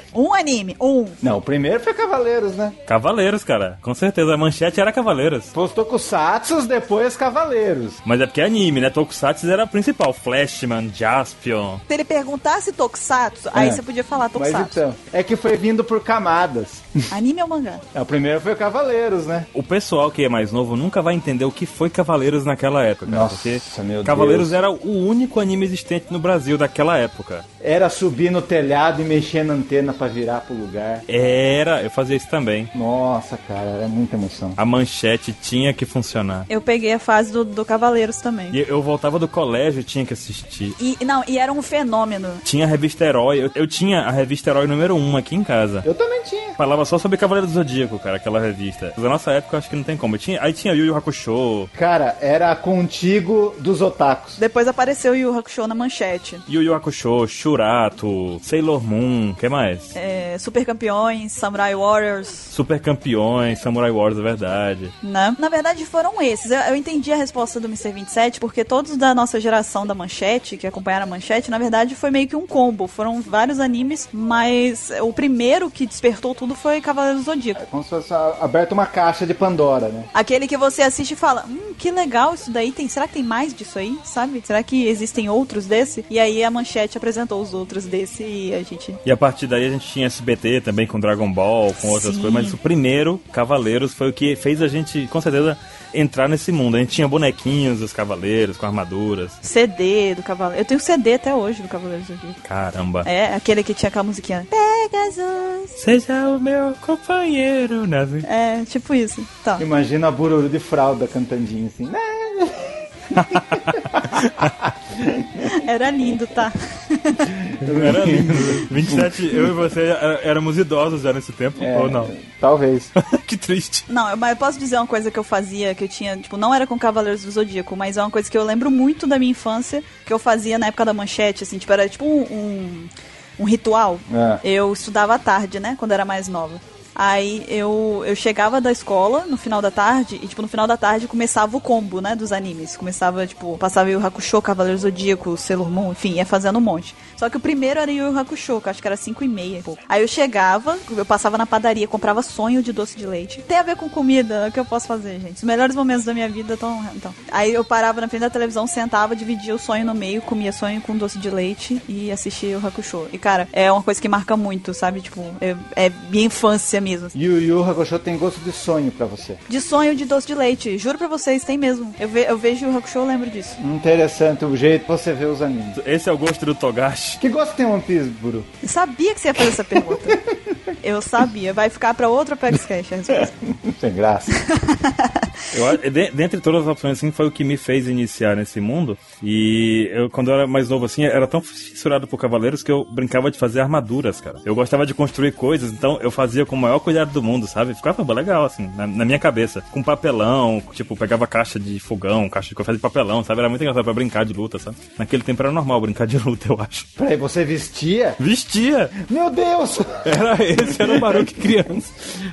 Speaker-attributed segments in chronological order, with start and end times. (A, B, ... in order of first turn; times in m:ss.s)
0:00.1-0:01.2 A
0:01.2-0:02.8 B
0:02.9-0:05.5 C
0:05.5-0:08.0 B
0:08.0-0:11.8 C
0:11.9-0:14.8 A
0:13.5-0:17.1 B
0:17.1-0:17.8 A
0:17.9-0:19.5 B
0:19.5-0:27.5 C
0:23.0-0:24.6 B
0:27.6-0:31.1 B
0:31.1-0:32.7 C
0:32.7-0:34.6 B
0:34.6-0:36.5 C
0:36.5-0:38.6 A
0:38.5-0:40.8 C
0:40.8-0:42.4 A
0:42.4-0:45.9 C
0:45.8-0:46.6 B
0:46.6-0:51.7 C
0:51.7-0:54.4 B
0:54.4-0:56.4 A
0:56.5-1:00.0 C
1:00.0-1:02.5 A
1:02.5-1:05.0 C
1:05.0-1:17.6 A
1:17.6-1:20.1 B
1:20.1-1:29.0 A
1:29.0-1:39.4 C
1:31.8-1:32.6 A
1:39.4-1:42.4 A
1:42.4-1:43.1 C
1:43.0-1:45.8 A
1:45.8-1:48.3 C
1:48.2-1:49.6 A
1:49.6-1:55.5 B
1:53.1-1:54.5 C
1:55.5-1:57.4 A
1:57.5-1:59.1 B
1:57.6-2:02.1 C
2:01.6-2:02.9 B
2:03.0-2:03.9 C
2:03.9-2:47.2 A
2:14.1-2:14.4 B
2:47.2-2:49.4 B
2:49.5-2:53.6 A
2:53.6-2:55.8 B
2:55.8-2:57.2 C
2:57.2-2:58.5 B
2:58.6-3:00.2 A
3:00.0-3:00.6 B
3:00.8-3:03.3 A
3:03.2-3:04.4 B
3:04.4-3:05.3 A
3:05.5-3:26.9 C
3:27.0-3:28.2 B
3:28.2-3:29.0 C
3:29.0-3:31.7 B
3:30.0-3:31.9 C